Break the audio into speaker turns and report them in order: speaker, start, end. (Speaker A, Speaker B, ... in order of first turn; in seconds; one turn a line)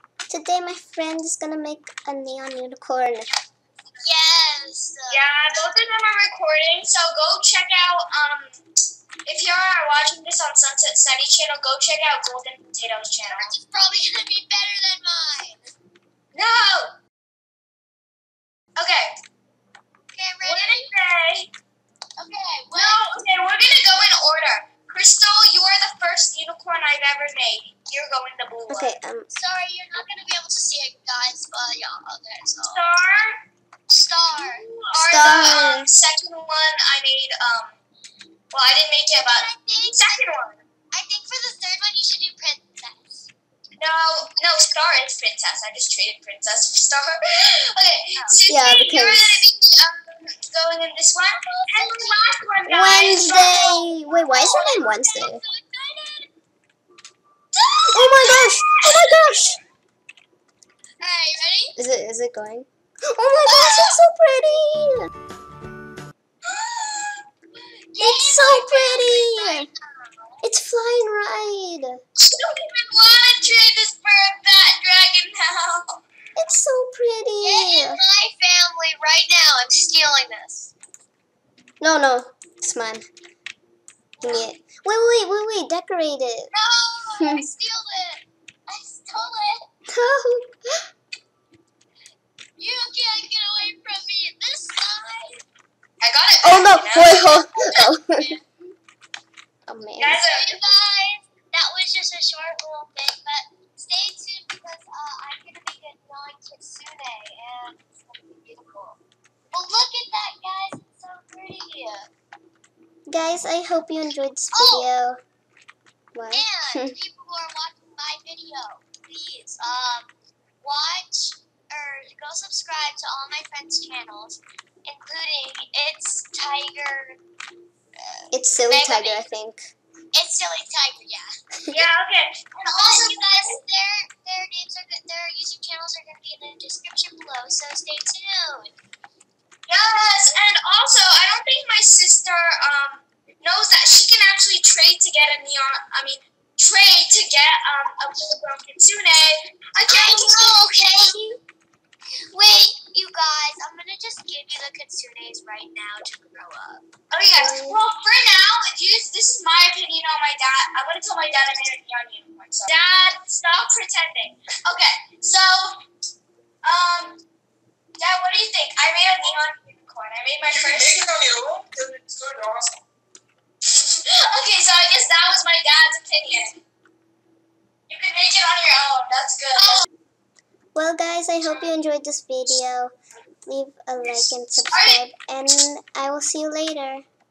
Speaker A: 0.3-3.3
Speaker B: 4.0-5.4
Speaker C: 5.1-8.6
Speaker C: 9.2-13.5
Speaker B: 13.3-15.7
Speaker C: 16.3-17.0
Speaker C: 18.8-19.1
Speaker B: 20.1-20.9
Speaker C: 20.4-21.5
Speaker B: 22.2-23.0
Speaker C: 22.7-28.9
Speaker A: 28.7-29.3
Speaker B: 29.3-32.9
Speaker C: 32.7-33.4
Speaker B: 33.9-34.6
Speaker C: 34.4-37.8
Speaker A: 35.0-35.9
Speaker C: 38.5-40.6
Speaker B: 39.2-40.2
Speaker B: 40.9-43.3
Speaker C: 43.8-53.7
Speaker B: 48.2-48.4
Speaker A: 48.5-49.5
Speaker B: 51.4-52.2
Speaker A: 52.7-55.4
Speaker B: 53.3-56.3
Speaker C: 54.5-54.7
Speaker B: 57.5-58.4
Speaker A: 57.9-59.6
Speaker C: 58.1-59.0
Speaker B: 61.0-61.8
Speaker A: 61.8-65.1
Speaker B: 63.5-64.0
Speaker C: 66.4-67.2
Speaker B: 67.6-70.4
Speaker A: 68.0-69.7
Speaker A: 70.4-72.0
Speaker C: 72.2-76.0
Speaker A: 76.3-78.0
Speaker B: 77.4-80.7
Speaker A: 81.8-83.0
Speaker B: 84.2-84.5
Speaker A: 84.2-86.5
Speaker B: 86.5-89.7
Speaker A: 87.2-87.4
Speaker A: 89.9-90.6
Speaker B: 92.6-95.4
Speaker C: 96.0-97.2
Speaker A: 96.4-98.3
Speaker B: 96.9-98.4
Speaker A: 99.7-100.2
Speaker C: 100.0-100.6
Speaker B: 100.2-112.1
Speaker A: 113.1-115.2
Speaker B: 114.5-114.9
Speaker A: 116.1-116.9
Speaker B: 116.3-127.2
Speaker B: 128.0-129.3
Speaker A: 128.3-129.6
Speaker B: 130.1-131.3
Speaker C: 131.7-133.6
Speaker B: 132.7-138.8
Speaker C: 139.7-150.6
Speaker B: 149.8-151.2
Speaker B: 152.3-156.9
Speaker C: 157.1-165.8
Speaker A: 157.3-157.8
Speaker C: 166.6-167.2
Speaker C: 168.0-171.7
Speaker D: 170.6-172.5
Speaker C: 172.3-172.7
Speaker C: 173.7-176.6
Speaker C: 177.9-179.8
Speaker A: 180.8-182.9
Speaker A: 183.5-187.1
Speaker C: 184.7-185.0